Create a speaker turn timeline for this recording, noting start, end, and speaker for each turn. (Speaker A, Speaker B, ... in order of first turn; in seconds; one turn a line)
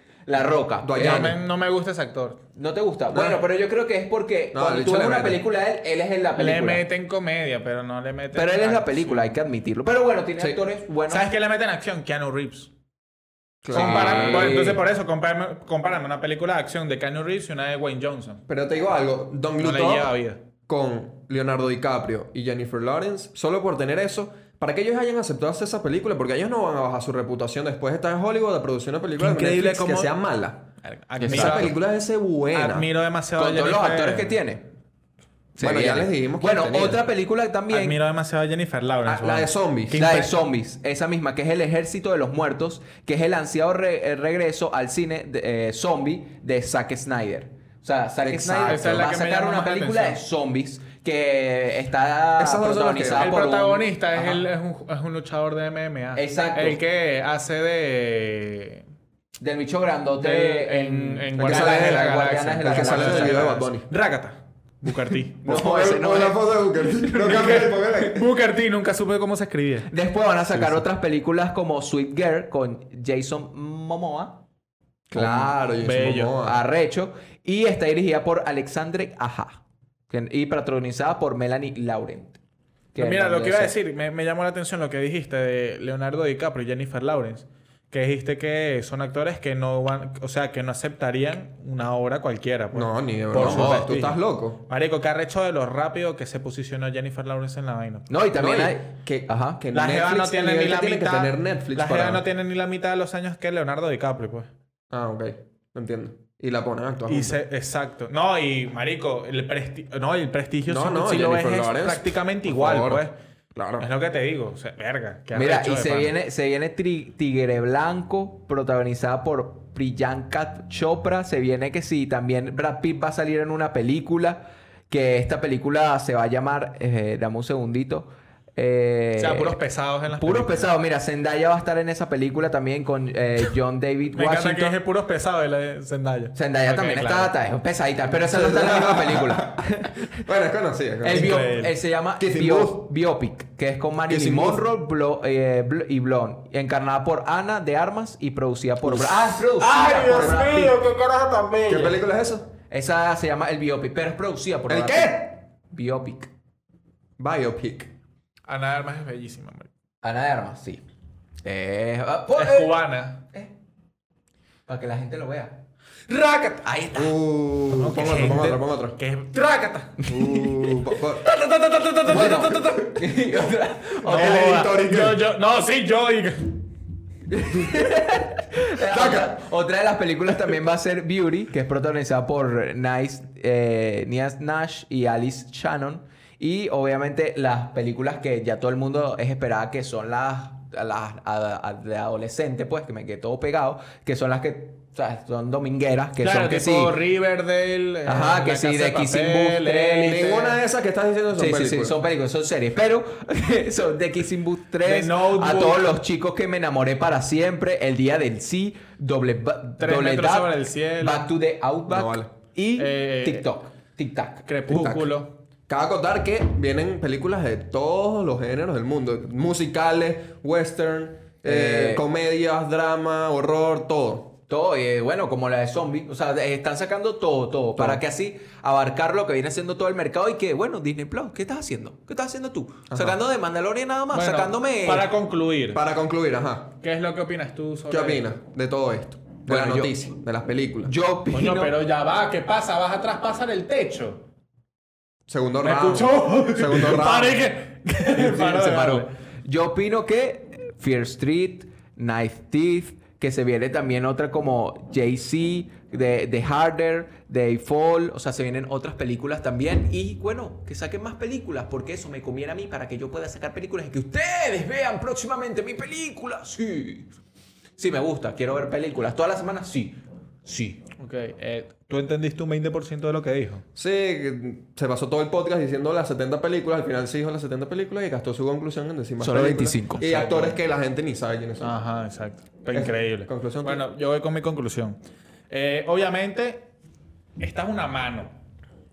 Speaker A: 0.3-1.3
Speaker B: 0.8-1.4
Speaker C: 0.9-2.4
Speaker A: 2.5-6.8
Speaker B: 3.1-3.4
Speaker B: 4.5-5.4
Speaker C: 6.4-9.3
Speaker A: 8.3-11.3
Speaker C: 11.1-12.7
Speaker B: 13.6-14.6
Speaker A: 13.7-14.8
Speaker C: 13.7-18.4
Speaker B: 18.5-20.1
Speaker C: 19.6-20.4
Speaker B: 20.7-30.7
Speaker C: 29.2-30.1
Speaker C: 30.8-31.8
Speaker A: 31.2-31.7
Speaker B: 31.2-32.9
Speaker C: 32.5-34.4
Speaker A: 33.4-34.7
Speaker A: 35.5-38.0
Speaker B: 35.6-37.0
Speaker C: 37.7-40.3
Speaker B: 39.0-40.0
Speaker A: 40.0-54.4
Speaker B: 48.2-49.1
Speaker C: 48.6-50.2
Speaker B: 52.4-53.3
Speaker C: 53.2-58.8
Speaker A: 56.1-56.8
Speaker A: 59.4-63.5
Speaker C: 60.2-65.4
Speaker B: 61.4-63.9
Speaker A: 65.4-68.1
Speaker B: 65.4-68.3
Speaker C: 67.2-69.9
Speaker A: 69.9-74.4
Speaker B: 70.5-70.8
Speaker B: 75.1-76.6
Speaker A: 75.1-75.6
Speaker C: 75.8-76.4
Speaker A: 76.4-82.4
Speaker A: 82.9-83.7
Speaker C: 83.0-98.0
Speaker B: 92.7-94.6
Speaker A: 93.3-93.9
Speaker A: 98.1-99.6
Speaker B: 98.4-102.2
Speaker C: 99.7-104.5
Speaker B: 104.9-107.3
Speaker C: 107.1-113.1
Speaker B: 110.7-113.9
Speaker C: 113.8-116.1
Speaker A: 115.3-134.8
Speaker C: 129.2-130.7
Speaker C: 134.1-137.3
Speaker A: 136.3-139.7
Speaker B: 138.3-141.4
Speaker A: 141.0-150.8
Speaker C: 141.0-141.7
Speaker B: 142.2-142.8
Speaker B: 144.1-144.6
Speaker B: 148.8-149.4
Speaker C: 149.4-151.9
Speaker B: 150.1-150.4
Speaker B: 151.7-152.5
Speaker A: 152.7-156.3
Speaker B: 154.7-155.3
Speaker B: 157.2-157.9
Speaker C: 158.5-159.7
Speaker A: 160.0-160.8
Speaker A: 161.4-163.5
Speaker C: 162.3-163.2
Speaker A: 164.7-165.6
Speaker C: 166.1-166.7
Speaker A: 166.6-167.2
Speaker B: 166.9-169.0
Speaker C: 167.7-170.0
Speaker A: 170.0-170.7
Speaker B: 170.1-171.2
Speaker C: 170.9-173.3
Speaker A: 172.1-174.5
Speaker B: 172.1-172.6
Speaker C: 174.0-176.6
Speaker B: 174.1-175.2
Speaker A: 177.3-197.0
Speaker B: 178.9-179.4
Speaker C: 196.2-200.6
Speaker A: 198.0-200.2
Speaker B: 200.0-202.0
Speaker A: 201.3-214.4
Speaker C: 204.8-205.9
Speaker C: 209.8-211.3
Speaker B: 211.9-212.3
Speaker C: 212.8-213.5
Speaker C: 214.4-215.3
Speaker B: 214.7-215.1
Speaker B: 215.7-224.3
Speaker A: 221.4-222.0
Speaker A: 224.5-235.1
Speaker B: 227.8-228.0
Speaker B: 232.9-233.2
Speaker C: 234.1-235.8
Speaker B: 235.7-236.7
Speaker C: 236.8-238.3
Speaker B: 237.9-240.9
Speaker A: 239.4-240.0
Speaker A: 240.8-241.7
Speaker C: 241.3-244.2
Speaker B: 245.3-247.4
Speaker C: 245.6-249.1
Speaker A: 248.0-267.1
Speaker A: 267.8-270.8
Speaker C: 271.0-273.6
Speaker B: 273.8-281.8
Speaker A: 279.2-280.3
Speaker C: 280.0-280.5
Speaker C: 281.6-285.0
Speaker B: 282.7-283.8
Speaker C: 285.5-286.6
Speaker C: 287.4-288.3